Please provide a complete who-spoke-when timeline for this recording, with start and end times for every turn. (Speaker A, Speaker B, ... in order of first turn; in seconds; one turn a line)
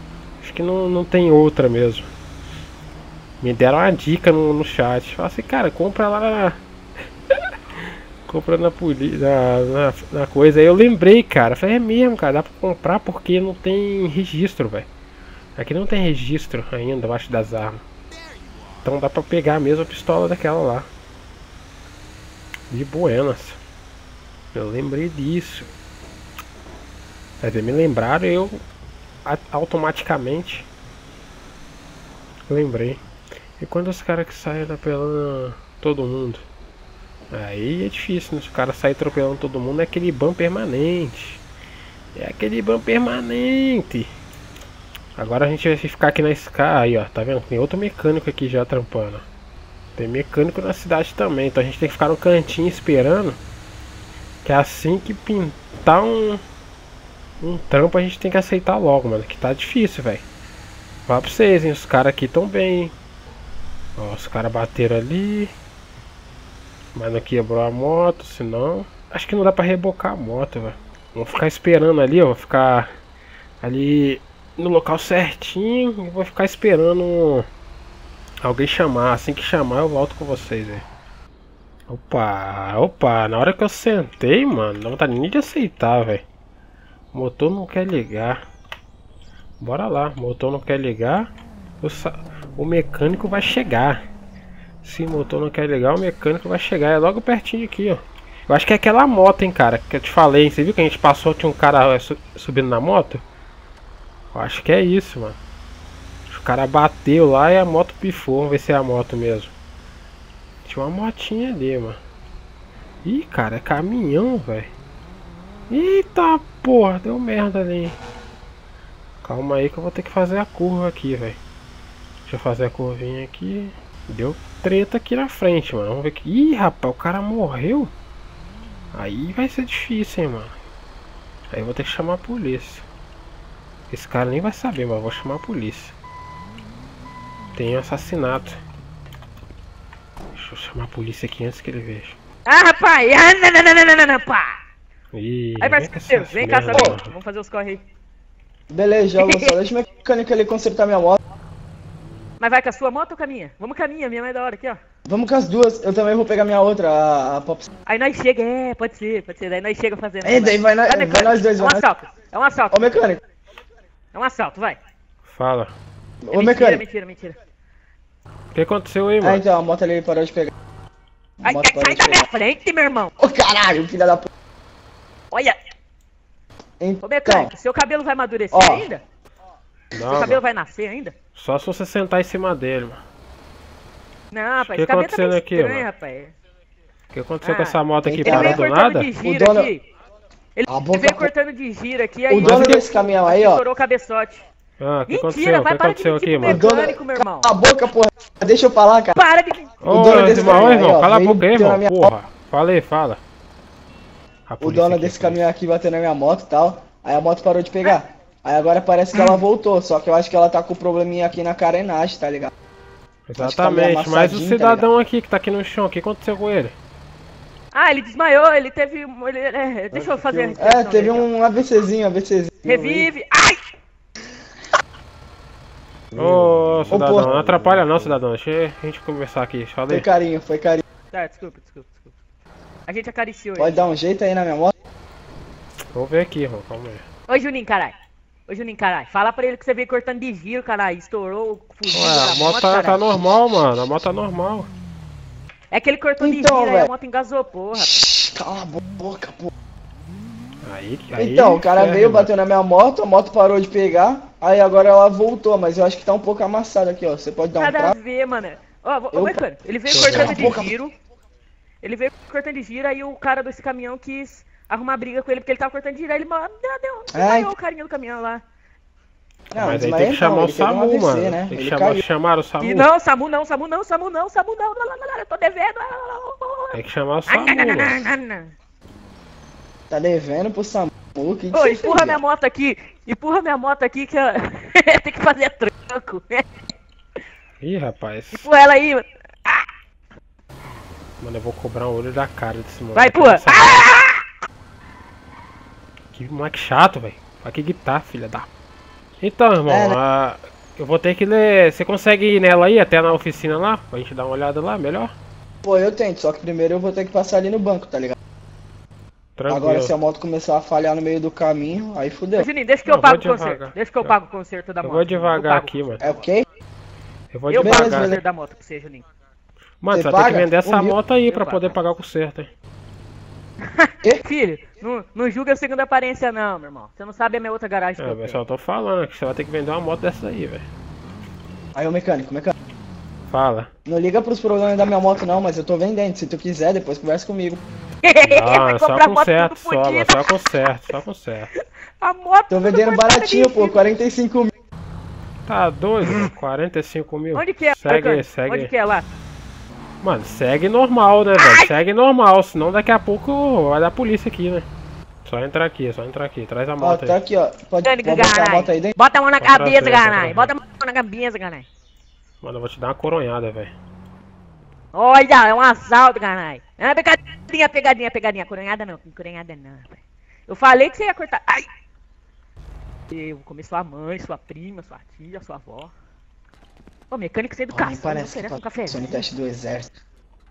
Speaker A: 0.4-2.1
Speaker A: 3.4-6.6
Speaker A: 7.3-14.9
Speaker A: 15.6-17.8
Speaker A: 18.8-20.9
Speaker A: 22.7-23.6
Speaker A: 24.5-25.7
Speaker A: 27.4-28.6
Speaker A: 29.2-30.7
Speaker A: 32.5-33.0
Speaker A: 33.6-36.5
Speaker A: 37.3-41.4
Speaker A: 42.1-44.1
Speaker A: 45.2-49.2
Speaker A: 50.0-53.4
Speaker A: 54.4-56.4
Speaker A: 57.4-60.2
Speaker A: 61.1-62.9
Speaker A: 64.0-65.5
Speaker A: 66.9-72.9
Speaker A: 73.6-77.5
Speaker A: 78.4-80.8
Speaker A: 81.9-86.2
Speaker A: 87.1-88.4
Speaker A: 89.6-91.3
Speaker A: 91.8-94.0
Speaker A: 94.8-103.2
Speaker A: 104.3-105.4
Speaker A: 106.3-109.5
Speaker A: 110.7-112.0
Speaker A: 113.0-114.7
Speaker A: 115.7-118.0
Speaker A: 119.2-121.4
Speaker A: 122.2-127.9
Speaker A: 128.9-130.6
Speaker A: 131.5-132.8
Speaker A: 133.9-135.9
Speaker A: 137.6-138.6
Speaker A: 140.3-142.2
Speaker B: 142.5-144.6
Speaker A: 145.1-147.1
Speaker B: 145.6-147.8
Speaker C: 148.7-151.2
Speaker B: 149.2-149.6
Speaker B: 152.4-154.8
Speaker C: 155.1-157.7
Speaker B: 157.9-163.1
Speaker C: 160.2-161.8
Speaker C: 162.7-163.2
Speaker B: 164.1-164.8
Speaker A: 165.2-165.8
Speaker C: 166.2-166.8
Speaker B: 166.3-167.4
Speaker A: 168.5-169.4
Speaker C: 169.2-170.5
Speaker C: 171.4-172.2
Speaker B: 171.4-173.1
Speaker C: 173.2-174.3
Speaker B: 175.3-175.6
Speaker C: 176.8-177.5
Speaker B: 177.0-179.0
Speaker C: 178.5-178.9
Speaker A: 179.9-180.4
Speaker B: 180.0-181.2
Speaker A: 181.3-183.0
Speaker B: 184.3-186.3
Speaker A: 184.6-185.9
Speaker A: 187.1-189.1
Speaker B: 187.4-189.8
Speaker C: 188.1-188.6
Speaker C: 189.2-189.7
Speaker B: 190.6-194.4
Speaker C: 190.7-191.3
Speaker C: 192.3-193.6
Speaker A: 192.4-192.8
Speaker A: 194.8-196.6
Speaker B: 195.1-197.5
Speaker C: 196.4-199.2
Speaker B: 199.2-200.8
Speaker A: 199.8-203.2
Speaker C: 199.9-202.1
Speaker A: 204.5-205.5
Speaker C: 204.6-212.5
Speaker A: 213.3-216.8
Speaker C: 213.4-214.9
Speaker B: 217.7-221.3
Speaker C: 219.9-223.1
Speaker B: 222.7-223.6
Speaker A: 226.2-230.1
Speaker C: 226.9-227.8
Speaker C: 229.9-230.8
Speaker B: 231.1-232.1
Speaker B: 232.9-233.8
Speaker C: 233.6-234.7
Speaker A: 235.9-237.0
Speaker B: 237.3-237.9
Speaker B: 238.5-243.0
Speaker A: 241.9-244.7
Speaker B: 245.7-247.9
Speaker C: 246.2-246.9
Speaker C: 247.8-249.5
Speaker A: 250.6-252.3
Speaker C: 251.2-258.0
Speaker B: 257.6-260.9
Speaker C: 259.1-259.4
Speaker A: 259.9-260.6
Speaker C: 259.9-260.7
Speaker B: 261.8-268.4
Speaker C: 267.1-267.5
Speaker C: 269.5-272.0
Speaker A: 269.5-272.9
Speaker B: 272.6-278.6
Speaker A: 276.7-278.0
Speaker C: 279.9-282.2
Speaker B: 281.5-286.5
Speaker A: 287.6-288.5
Speaker B: 288.3-289.7
Speaker A: 291.2-293.9
Speaker B: 292.9-294.2
Speaker A: 296.1-298.5
Speaker A: 299.2-305.1
Speaker C: 299.7-300.0
Speaker C: 305.6-308.2
Speaker A: 309.4-310.0
Speaker C: 309.5-312.5
Speaker B: 312.4-316.2
Speaker A: 312.9-314.2
Speaker A: 314.8-316.0
Speaker C: 316.0-316.5
Speaker A: 317.3-318.1
Speaker B: 317.5-319.1
Speaker C: 317.6-318.2
Speaker A: 319.8-322.5
Speaker C: 319.9-321.0
Speaker B: 321.3-321.8
Speaker B: 323.6-328.4
Speaker A: 328.0-330.6
Speaker C: 331.8-332.5
Speaker A: 333.3-333.7
Speaker C: 333.9-337.6
Speaker B: 338.0-340.5
Speaker A: 338.2-341.5
Speaker B: 341.6-343.8
Speaker C: 342.5-344.5
Speaker A: 345.5-348.7
Speaker B: 347.3-349.1
Speaker A: 350.0-354.7
Speaker B: 351.4-351.7
Speaker A: 355.2-357.2
Speaker C: 356.8-358.9
Speaker B: 357.8-361.7
Speaker A: 359.4-360.5
Speaker A: 362.4-363.7
Speaker B: 364.9-371.7
Speaker B: 373.1-375.9
Speaker B: 377.1-379.2
Speaker C: 377.7-379.9